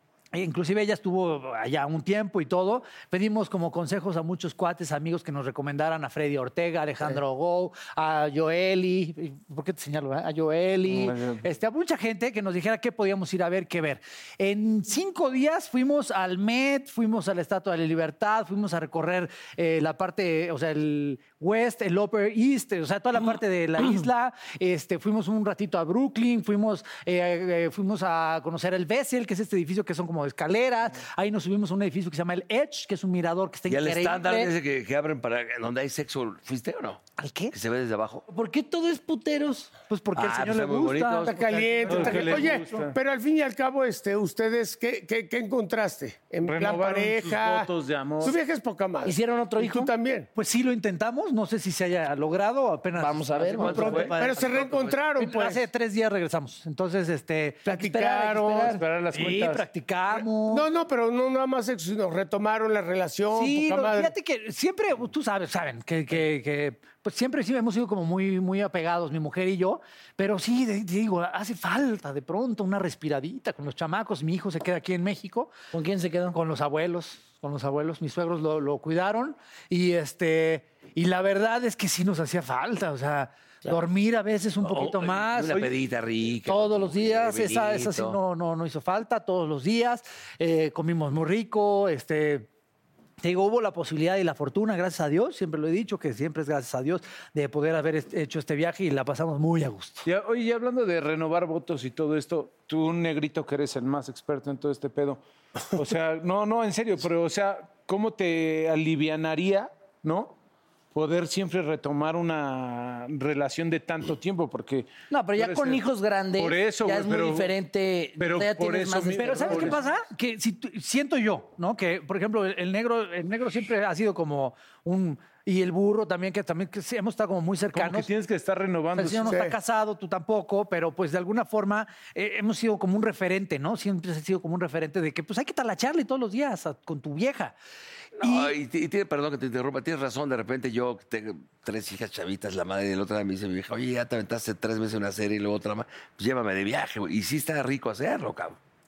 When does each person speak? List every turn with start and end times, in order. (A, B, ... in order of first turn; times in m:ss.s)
0:00.3-0:34.5 A
0:10.9-0:11.2 B
0:33.7-0:38.2 C
0:37.2-0:37.5 A
0:38.3-0:39.8 D
0:39.8-0:42.8 A
0:40.2-0:41.4 C
0:41.2-0:50.3 E
0:41.9-0:42.9 B
0:46.4-0:48.4 B
0:49.0-0:49.9 D
0:50.4-0:57.7 A
0:53.0-0:54.1 D
0:53.6-0:55.0 C
0:53.6-0:55.7 E
0:57.7-0:58.8 E
0:57.7-0:58.8 D
0:58.7-0:59.7 B
0:59.1-1:00.7 A
1:00.2-1:04.1 E
1:03.3-1:15.6 A
1:15.7-1:16.4 D
1:16.3-1:25.7 A
1:24.6-1:28.2 C
1:26.5-1:32.5 A
1:33.2-1:40.1 A
1:40.0-1:50.4 B
1:50.9-1:55.8 B
1:55.1-1:59.8 D
1:56.4-1:57.5 B
1:58.2-1:59.8 B
1:59.2-2:08.1 A
2:07.7-2:09.4 B
2:09.0-2:17.6 A
2:09.3-2:09.6 E
2:18.2-2:28.6 C
2:18.2-2:18.6 A